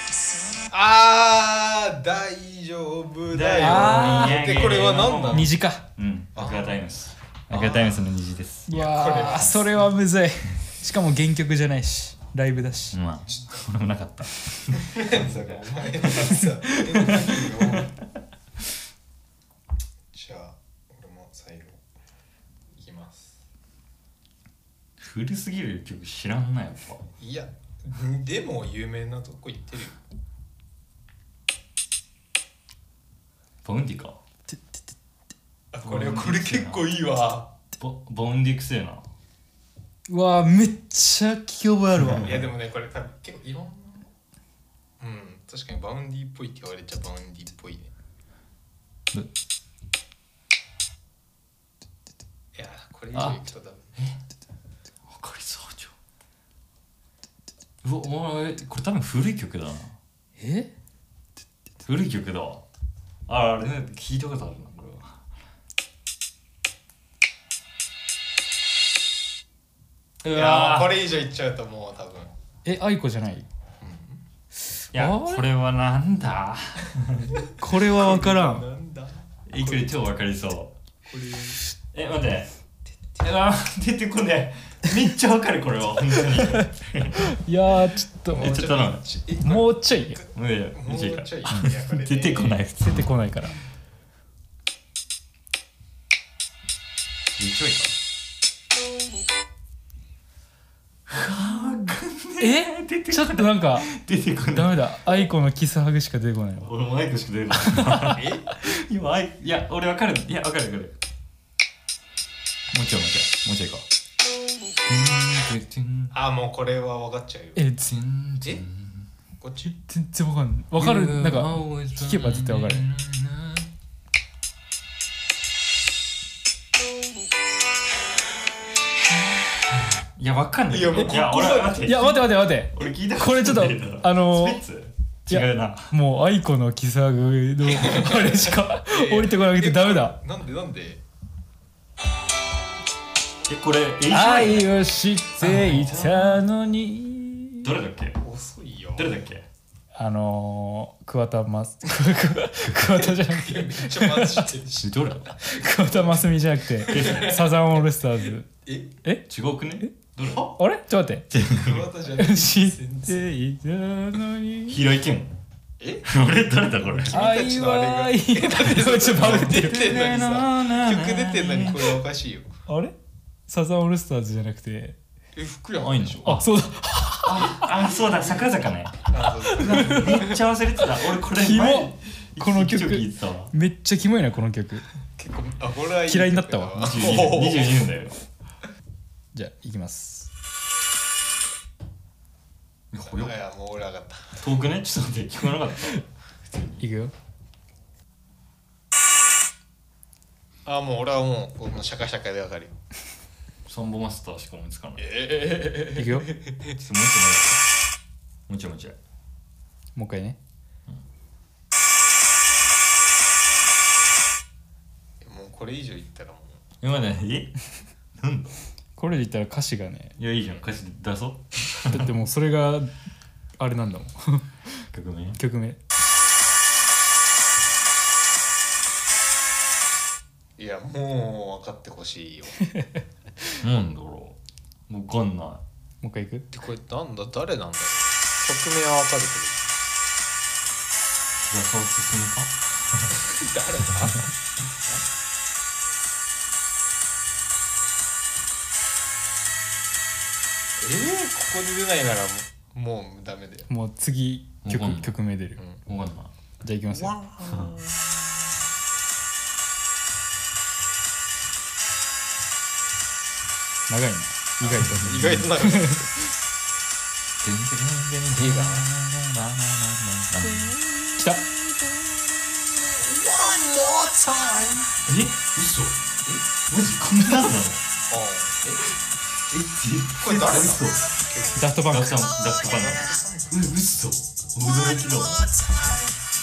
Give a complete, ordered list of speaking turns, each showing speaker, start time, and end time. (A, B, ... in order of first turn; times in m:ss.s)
0:00.7-0:05.6 A
0:03.3-0:08.8 B
0:03.6-0:04.5 C
0:05.3-0:05.8 C
0:06.3-0:06.8 A
0:07.5-0:08.0 A
0:08.7-0:09.7 A
0:08.7-0:13.0 C
0:09.3-0:09.6 B
0:12.9-0:16.4 B
0:14.8-0:17.9 A
0:16.7-0:17.2 C
0:20.1-0:21.8 A
0:22.8-0:23.4 A
0:25.0-0:27.1 B
0:27.2-0:30.0 A
0:33.6-0:34.2 B
0:34.5-0:34.8 C
0:35.7-0:37.5 A
0:35.8-0:37.0 B
0:37.8-0:39.0 B
0:40.1-0:42.4 C
0:42.2-0:44.1 A
0:45.0-0:47.9 A
0:52.5-0:53.9 A
0:55.1-0:55.9 B
0:57.8-1:00.0 B
1:00.4-1:00.7 C
1:01.8-1:02.6 B
1:03.3-1:05.2 B
1:10.2-1:11.0 B
1:10.3-1:12.3 A
1:12.6-1:13.5 C
1:13.8-1:14.2 A
1:14.9-1:17.4 B
1:14.9-1:15.5 C
1:17.4-1:20.0 A
1:17.5-1:18.6 C
1:19.5-1:20.7 B
1:21.0-1:21.6 A
1:21.9-1:22.5 B
1:23.2-1:27.3 B
1:27.2-1:28.8 C
1:28.3-1:29.2 B
1:28.3-1:32.6 A
1:29.3-1:30.2 C
1:30.3-1:33.0 B
1:32.8-1:33.5 C
1:37.4-1:38.0 B
1:41.1-1:45.0 B
1:42.4-1:44.0 C
1:44.5-1:46.7 C
1:46.6-1:50.9 B
1:47.7-1:48.2 C
1:48.1-1:48.5 A
1:52.7-1:53.8 B
1:54.8-1:56.1 B
1:56.1-1:57.6 A
1:57.6-1:57.9 C
1:57.8-1:59.1 B
1:59.4-1:59.8 A
1:59.7-2:02.8 C
2:00.8-2:03.7 B
2:09.8-2:15.9 B
2:10.7-2:12.2 A
2:11.8-2:14.6 C
2:15.3-2:20.2 C
2:17.7-2:21.0 A
2:23.5-2:24.8 B
2:24.1-2:27.7 C
2:25.4-2:26.4 B
2:25.6-2:26.2 A
2:27.6-2:28.2 B
2:28.2-2:29.2 A
2:28.9-2:29.4 B
2:29.9-2:34.5 C
2:32.9-2:38.9 A
2:34.8-2:35.3 B
2:35.4-2:38.5 C
2:36.8-2:37.5 B
2:39.3-2:40.6 B
2:40.5-2:41.3 C
2:41.3-2:41.8 B
2:41.5-2:43.3 A
2:42.1-2:44.8 C
2:44.7-2:45.3 B
2:45.8-2:46.1 A
2:46.0-2:47.2 B
2:46.9-2:52.5 A
2:47.1-2:49.9 C
2:49.1-2:52.0 B
2:52.7-2:52.9 C
2:53.5-2:55.0 C
2:55.3-2:56.4 A
2:55.8-2:56.5 B
2:56.2-2:57.7 C
2:57.2-3:03.5 B
2:57.6-2:58.5 A
2:59.1-3:00.4 A
2:59.5-3:00.2 C
3:01.2-3:04.8 C
3:05.2-3:07.9 A
3:06.1-3:07.0 C
3:06.8-3:08.2 B
3:09.3-3:10.3 C
3:12.9-3:13.3 B
3:13.1-3:14.4 A
3:14.4-3:16.8 B
3:16.8-3:17.1 C
3:20.6-3:22.8 A
3:23.7-3:25.2 B
3:25.0-3:26.7 A
3:25.9-3:26.3 C
3:26.7-3:27.6 B
3:28.5-3:29.0 B
3:29.9-3:30.4 C
3:35.2-3:36.6 A
3:36.8-3:37.6 B
3:38.2-3:38.5 B
3:39.0-3:40.2 C
3:40.2-3:42.1 B
3:41.9-3:42.9 C
3:43.6-3:44.8 C
3:44.9-3:45.4 B
3:45.4-3:45.8 C
3:50.6-3:52.6 A
3:53.6-3:54.4 B
3:54.9-3:55.6 B
3:56.0-3:56.5 C
3:56.5-3:59.8 A
4:01.4-4:03.2 B
4:03.2-4:04.3 A
4:10.8-4:13.7 A
4:13.7-4:15.6 C
4:14.6-4:15.2 B
4:15.8-4:16.3 B
4:16.6-4:17.2 C
4:16.9-4:18.4 A
4:23.9-4:26.1 C
4:24.6-4:26.1 A
4:24.6-4:25.4 B
4:27.4-4:30.7 B
4:28.3-4:28.9 A
4:30.4-4:35.0 A
4:31.2-4:31.4 C
4:35.1-4:35.4 C
4:35.4-4:36.0 B
4:36.7-4:37.8 B
4:38.1-4:38.9 A
4:39.5-4:41.2 B
4:40.2-4:43.7 A
4:41.6-4:42.3 C
4:41.8-4:45.5 B